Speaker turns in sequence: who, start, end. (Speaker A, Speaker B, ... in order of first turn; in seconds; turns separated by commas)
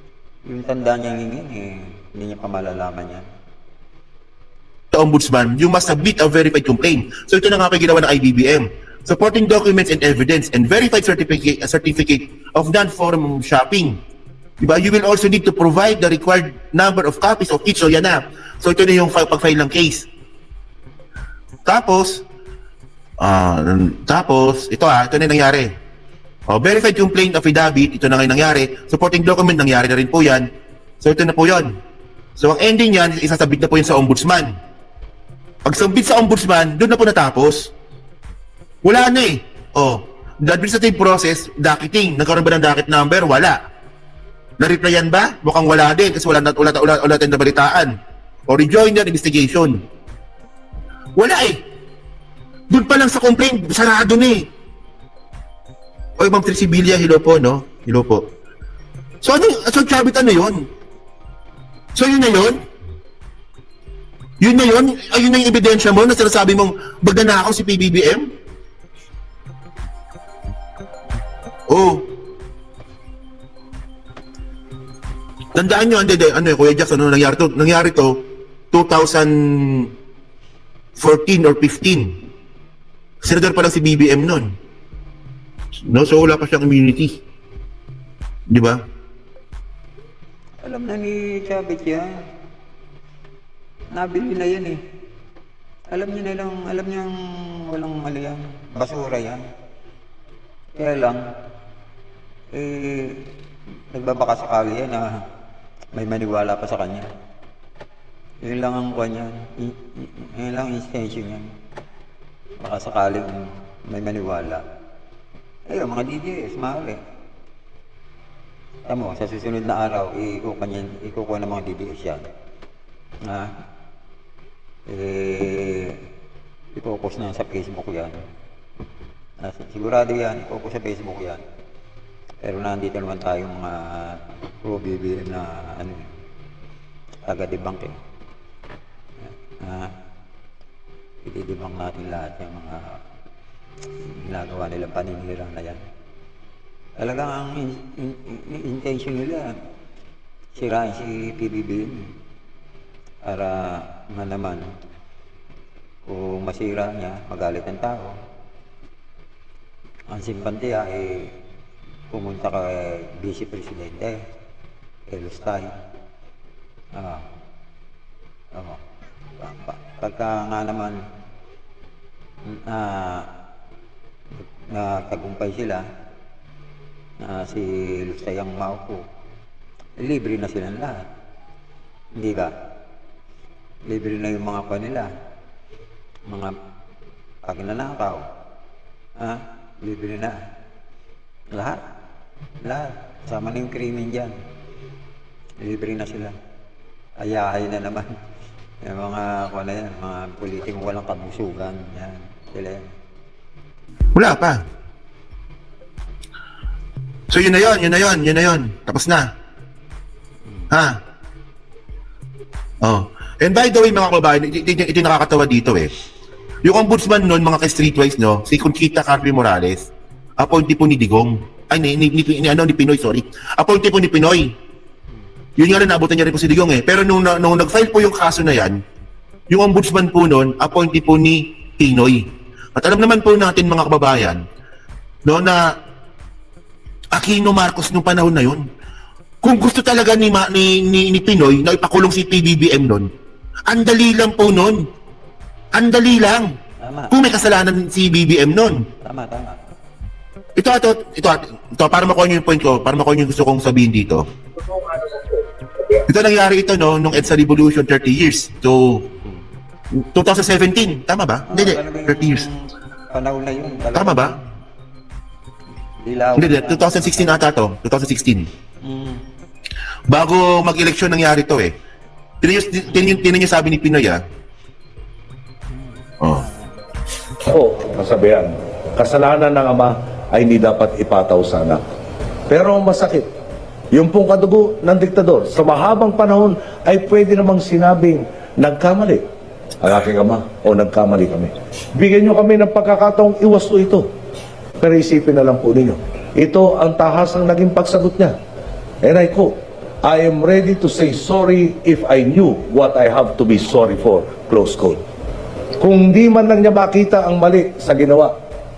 Speaker A: 0.5-3.2, Speaker B: 4.9-13.9, Speaker B: 14.6-20.1, Speaker B: 21.7-22.2, Speaker B: 23.2-25.7, Speaker B: 26.5-30.5, Speaker B: 31.0-31.7, Speaker B: 32.4-34.5, Speaker B: 35.6-37.7, Speaker B: 38.8-43.6, Speaker B: 44.6-47.9, Speaker B: 48.5-49.7, Speaker B: 51.2-51.6, Speaker B: 52.7-54.4, Speaker B: 56.2-58.2, Speaker B: 59.2-60.6, Speaker B: 62.0-62.6, Speaker B: 64.4-68.2, Speaker B: 71.7-72.0, Speaker B: 75.5-78.1, Speaker B: 78.7-79.9, Speaker B: 81.0-82.1, Speaker B: 83.2-84.5, Speaker B: 85.9-87.2, Speaker B: 88.5-88.8, Speaker A: 90.6-92.2, Speaker A: 93.9-94.8, Speaker A: 95.9-99.4, Speaker A: 100.7-101.2, Speaker A: 102.5-103.3, Speaker A: 103.9-105.2, Speaker A: 105.9-107.1, Speaker A: 108.4-111.5, Speaker A: 112.6-114.6, Speaker A: 115.7-117.0, Speaker A: 118.8-122.2, Speaker A: 124.9-126.0, Speaker A: 126.7-128.1, Speaker A: 129.4-131.4, Speaker A: 132.4-136.1, Speaker A: 137.2-138.0, Speaker A: 139.6-139.9, Speaker A: 141.2-143.0, Speaker A: 144.2-145.8, Speaker A: 147.0-149.5, Speaker A: 150.5-152.0, Speaker A: 153.2-154.6, Speaker A: 156.1-158.1, Speaker A: 160.1-161.3, Speaker A: 162.1-164.2, Speaker A: 165.1-165.7, Speaker A: 166.9-167.2, Speaker A: 168.5-168.8, Speaker A: 169.4-171.0, Speaker A: 172.4-173.3, Speaker A: 174.7-175.8, Speaker A: 177.2-179.0, Speaker A: 180.0-181.1, Speaker A: 182.2-182.5, Speaker A: 183.9-185.1, Speaker A: 186.3-186.5, Speaker A: 187.4-188.2, Speaker A: 189.2-190.4, Speaker A: 191.5-191.8, Speaker A: 192.6-194.3, Speaker A: 195.6-196.3, Speaker A: 197.2-198.1, Speaker A: 198.8-202.8, Speaker B: 204.1-204.6, Speaker B: 207.3-209.2, Speaker B: 212.8-215.9, Speaker B: 216.6-219.8, Speaker B: 220.4-224.5, Speaker B: 225.6-228.8, Speaker B: 229.5-232.2, Speaker B: 232.8-234.4, Speaker B: 235.2-235.6, Speaker B: 237.1-238.6, Speaker B: 239.4-243.1, Speaker B: 243.7-244.8, Speaker B: 245.7-246.5, Speaker A: 246.8-247.2, Speaker B: 247.1-248.8, Speaker A: 249.0-249.6, Speaker B: 250.6-254.2, Speaker B: 256.1-259.0, Speaker B: 260.1-262.4, Speaker A: 261.5-264.3, Speaker B: 263.9-264.3, Speaker A: 266.0-267.4, Speaker B: 266.4-268.5, Speaker A: 268.8-269.2, Speaker B: 270.1-271.7, Speaker B: 272.4-274.2, Speaker A: 275.7-276.7, Speaker C: 277.4-281.8, Speaker C: 282.5-283.3, Speaker C: 283.9-289.2, Speaker C: 289.8-294.1, Speaker C: 294.8-298.3, Speaker C: 299.0-299.5, Speaker C: 300.0-305.0, Speaker C: 305.8-308.3